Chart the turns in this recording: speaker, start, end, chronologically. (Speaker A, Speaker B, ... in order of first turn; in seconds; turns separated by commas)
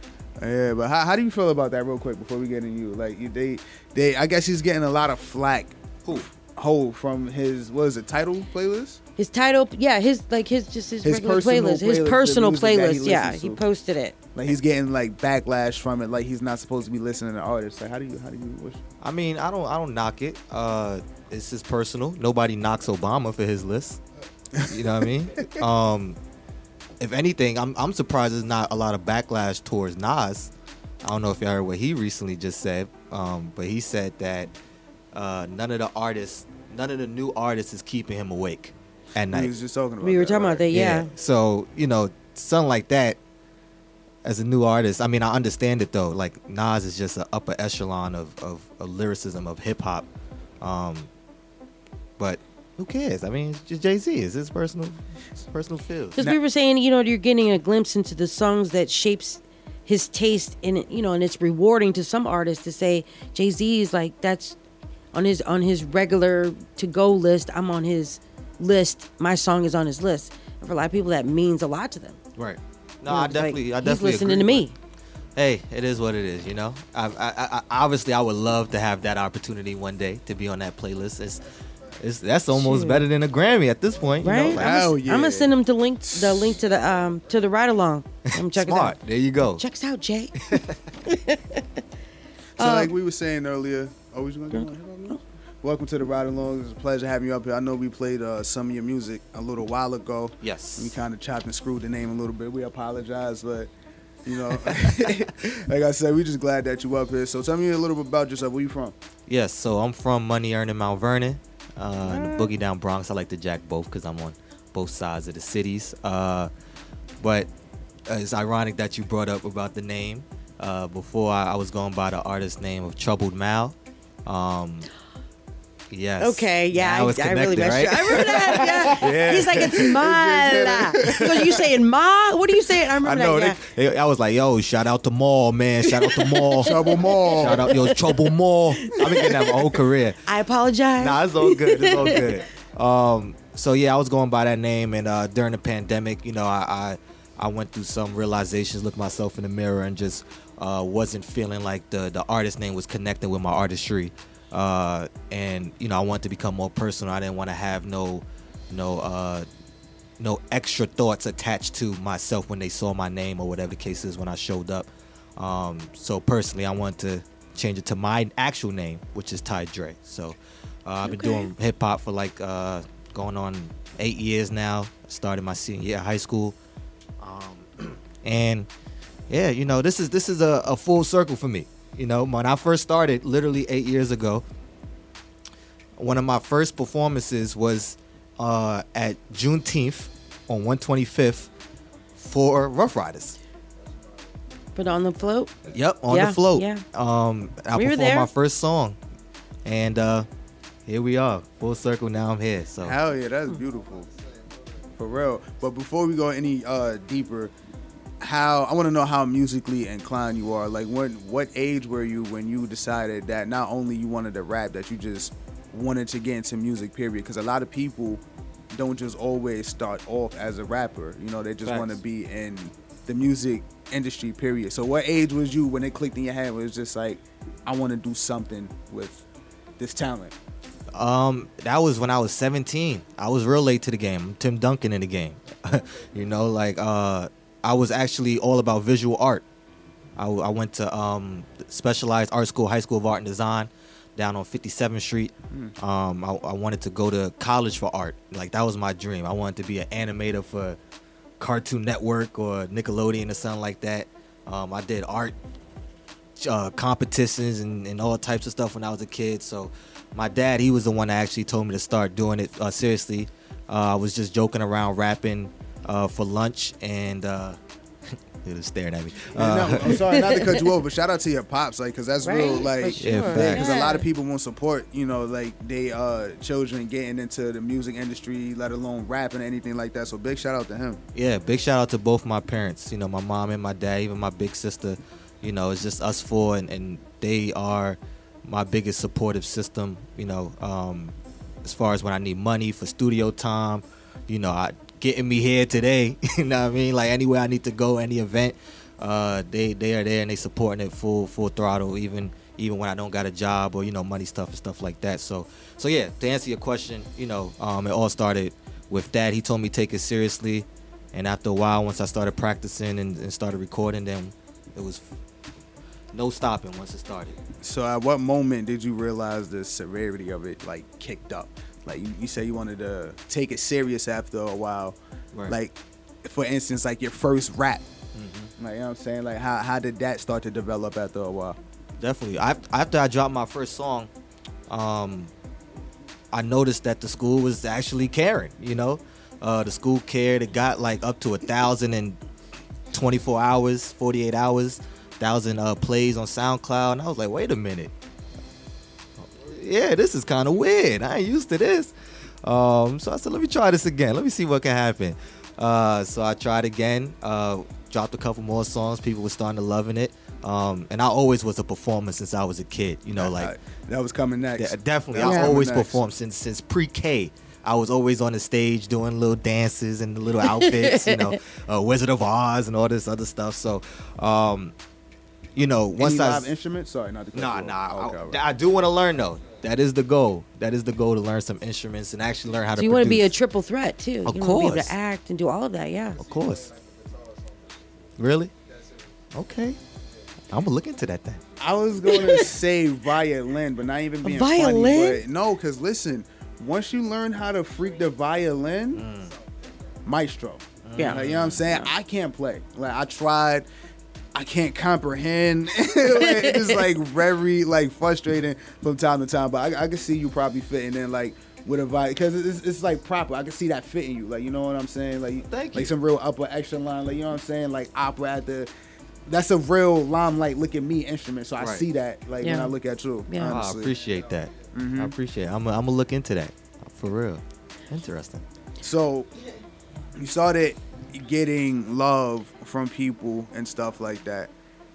Speaker A: 0.4-9.0, Speaker B: 9.2-14.2, Speaker A: 11.0-13.6, Speaker A: 14.3-18.8, Speaker C: 19.0-24.0, Speaker C: 24.7-26.2, Speaker C: 27.0-30.5, Speaker C: 31.0-34.5, Speaker C: 35.1-39.5, Speaker A: 39.3-40.6, Speaker B: 40.0-41.1, Speaker C: 40.7-43.2, Speaker C: 44.2-50.1, Speaker C: 50.6-51.1, Speaker C: 52.2-56.2, Speaker B: 56.1-64.6, Speaker B: 65.1-72.2, Speaker C: 72.4-74.7, Speaker B: 73.1-74.8, Speaker C: 75.4-81.4, Speaker C: 82.0-84.8, Speaker B: 82.5-83.0, Speaker B: 84.2-89.0, Speaker A: 84.4-85.5, Speaker A: 86.0-86.6, Speaker C: 88.4-89.6, Speaker B: 89.5-90.3, Speaker B: 91.1-91.6, Speaker A: 92.6-103.7, Speaker B: 92.6-92.9, Speaker B: 94.5-95.2, Speaker C: 100.4-101.0, Speaker A: 104.2-109.0, Speaker C: 109.3-116.5, Speaker B: 112.0-112.5, Speaker C: 117.2-117.5, Speaker C: 118.1-123.8, Speaker C: 124.3-124.9, Speaker C: 125.9-128.9, Speaker B: 126.2-133.6, Speaker A: 129.0-131.6, Speaker C: 133.1-136.8, Speaker A: 133.3-133.5, Speaker B: 136.0-138.1, Speaker A: 136.7-137.7, Speaker C: 137.4-140.2, Speaker B: 138.8-139.3, Speaker B: 140.2-142.3, Speaker C: 141.0-159.5, Speaker C: 160.2-176.6, Speaker B: 171.0-171.5, Speaker C: 177.2-178.7, Speaker C: 179.3-184.4, Speaker C: 186.0-191.5, Speaker C: 192.2-193.4, Speaker B: 194.8-195.6, Speaker C: 195.7-199.0, Speaker B: 196.1-196.8, Speaker B: 197.7-198.3, Speaker C: 199.7-200.3, Speaker C: 200.9-203.0, Speaker A: 202.8-204.1, Speaker A: 205.0-207.5, Speaker A: 208.2-229.2, Speaker A: 229.8-230.3, Speaker C: 230.9-239.4, Speaker C: 240.2-250.8, Speaker C: 251.4-255.3, Speaker C: 256.4-267.6, Speaker C: 268.4-270.2, Speaker A: 269.4-281.0, Speaker B: 269.9-270.6, Speaker B: 272.2-274.1, Speaker C: 273.0-273.8, Speaker C: 281.1-315.1, Speaker C: 316.1-317.4, Speaker A: 317.6-325.0, Speaker A: 325.5-327.9, Speaker C: 328.1-328.5, Speaker A: 328.6-331.6, Speaker C: 332.0-334.1, Speaker C: 334.7-335.3, Speaker C: 336.3-342.2, Speaker C: 342.9-347.9, Speaker C: 349.2-363.5, Speaker A: 363.2-366.0, Speaker C: 364.6-374.7, Speaker B: 365.2-365.5, Speaker B: 370.4-371.3, Speaker C: 375.6-376.5, Speaker A: 376.0-378.4, Speaker C: 377.3-383.4, Speaker B: 382.8-386.3, Speaker C: 384.2-384.9, Speaker C: 386.2-386.7, Speaker C: 388.2-388.5, Speaker C: 389.3-389.8, Speaker C: 390.5-391.4, Speaker A: 391.6-399.0, Speaker B: 392.1-392.5, Speaker B: 394.2-395.2, Speaker C: 398.9-399.3, Speaker A: 400.1-403.6, Speaker C: 400.8-401.7, Speaker B: 401.0-401.9, Speaker A: 404.3-418.7, Speaker B: 406.2-406.7, Speaker C: 415.5-415.9, Speaker A: 419.3-424.0, Speaker C: 421.6-421.9, Speaker B: 422.4-422.7, Speaker B: 423.3-423.7, Speaker C: 423.4-428.4, Speaker A: 424.7-425.1, Speaker A: 428.8-429.3, Speaker A: 430.2-434.5